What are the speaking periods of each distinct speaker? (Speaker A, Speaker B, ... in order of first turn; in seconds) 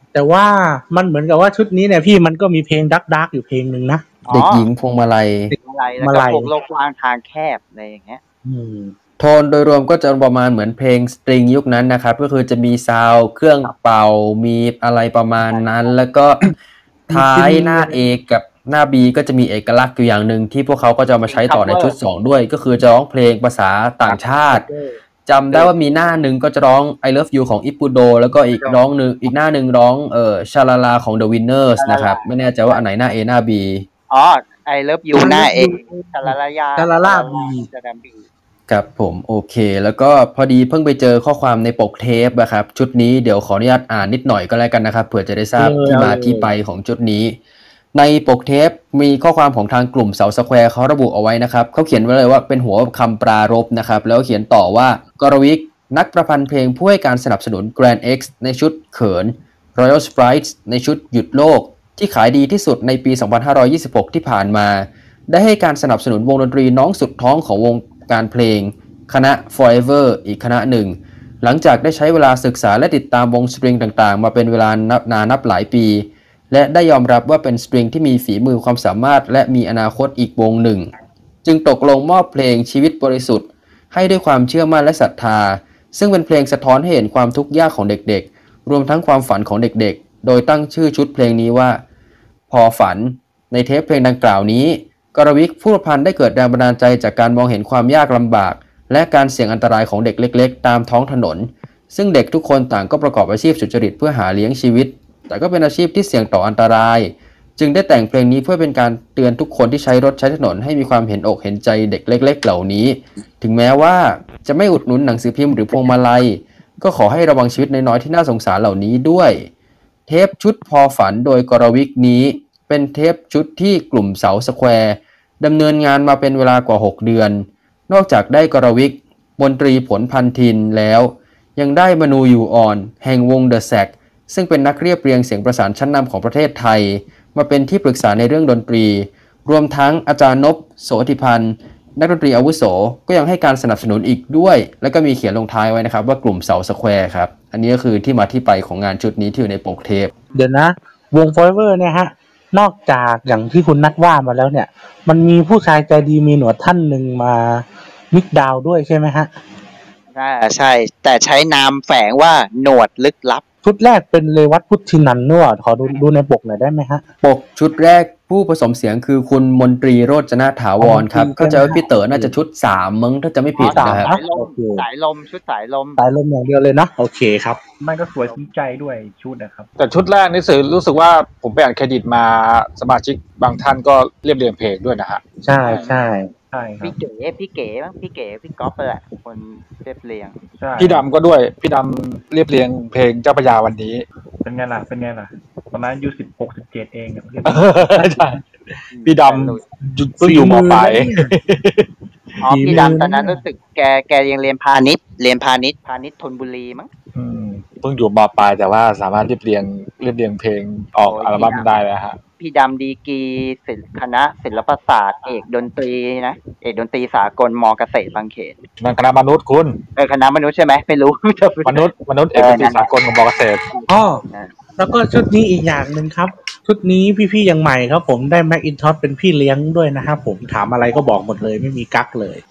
Speaker A: 0.1-4.0, 5.5-6.5, 8.4-8.9, 17.1-18.0, 24.0-24.9, 35.1-37.7, 45.5-46.5, 150.3-159.3, 163.6-167.0, 170.8-172.3, 173.6-174.8, 176.0-177.6, 185.4-186.3, 200.2-201.3, 202.4-203.4, 223.9-224.2, 224.8-232.4
Speaker B: 4.3-4.7, 5.6-8.2, 15.4-15.9, 21.2-21.9, 31.8-32.8, 34.1-38.2, 160.1-163.4, 173.6-176.0, 185.6-186.0, 186.8-190.4, 198.9-199.6, 202.4-206.9, 211.0-211.7, 212.4-218.6, 219.9-222.9, 223.7-224.5
Speaker C: 4.3-5.5, 9.2-16.4, 17.1-24.7, 25.2-33.9, 38.7-47.4, 47.9-80.9, 81.4-91.8, 92.5-119.5, 120.1-150.1, 167.2-174.1
Speaker D: 177.8-179.7, 186.5-186.9, 190.6-191.0, 194.4-197.8
Speaker E: 179.8-185.2, 190.8-194.0, 197.4-198.4, 199.0-201.9, 207.1-212.2, 218.8-219.8, 221.6-223.7